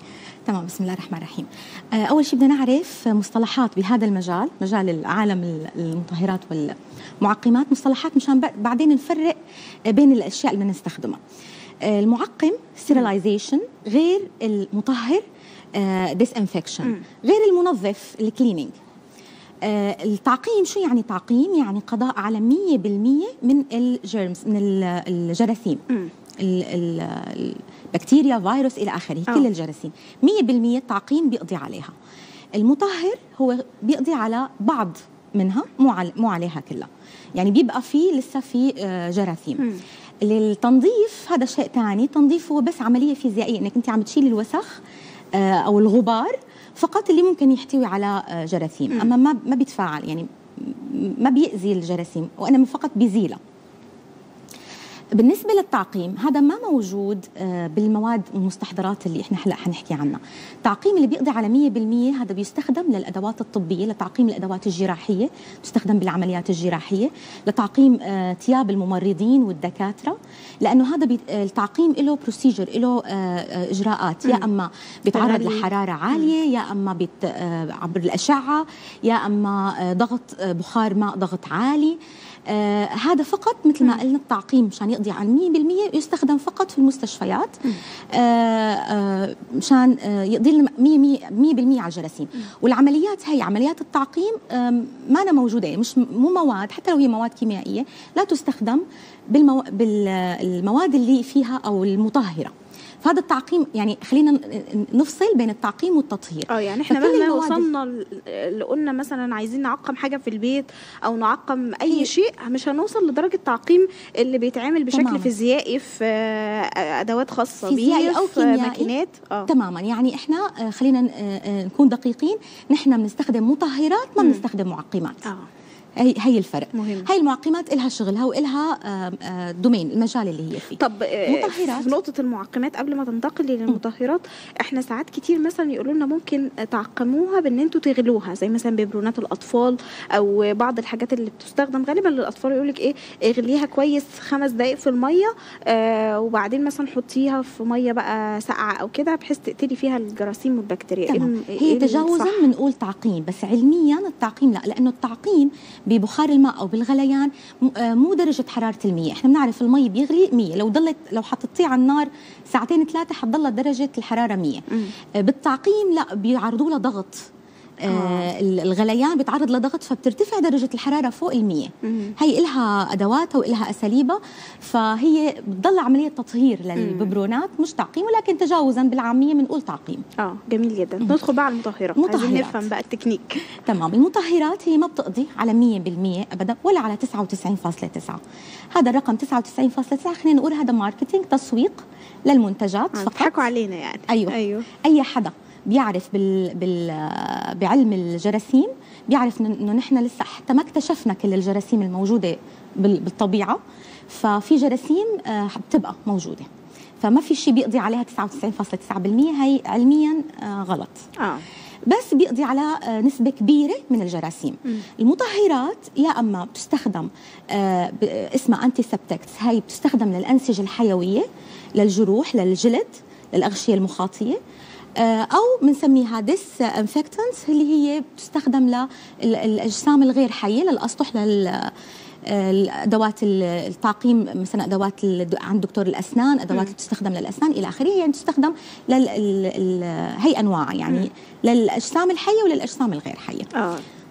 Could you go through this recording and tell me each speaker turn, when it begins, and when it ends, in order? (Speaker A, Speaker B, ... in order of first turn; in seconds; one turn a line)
Speaker A: 0.5-9.4
Speaker A: 9.9-11.2
Speaker A: 11.8-15.2
Speaker A: 15.8-18.7
Speaker A: 19.6-25.8
Speaker A: 26.4-31.9
Speaker A: 32.6-39.6
Speaker A: 40.2-44.7
Speaker A: 45.3-53.4
Speaker A: 55.2-87.6
Speaker B: 75.1-76.3
Speaker A: 88.1-102.5
Speaker A: 103.0-107.7
Speaker B: 106.5-119.5
Speaker A: 111.9-112.1
Speaker A: 114.9-115.3
Speaker A: 117.6-118.9
Speaker A: 119.5-125.3
Speaker B: 124.2-124.4
Speaker A: 126.0-131.9
Speaker B: 126.7-127.1
Speaker B: 130.8-152.4
Speaker A: 151.1-164.6
Speaker A: 165.2-167.3
Speaker A: 167.8-180.0
Speaker B: 167.9-168.3
Speaker B: 171.8-172.1
Speaker B: 176.8-177.1
Speaker B: 180.2-183.4
Speaker A: 182.0-182.7
Speaker A: 183.6-188.2
Speaker A: 188.7-193.4
Speaker B: 192.9-194.7
Speaker A: 194.1-206.5
Speaker A: 207.0-211.0
Speaker A: 211.9-224.4
Speaker A: 225.0-231.7
Speaker A: 232.2-243.5
Speaker B: 243.5-243.8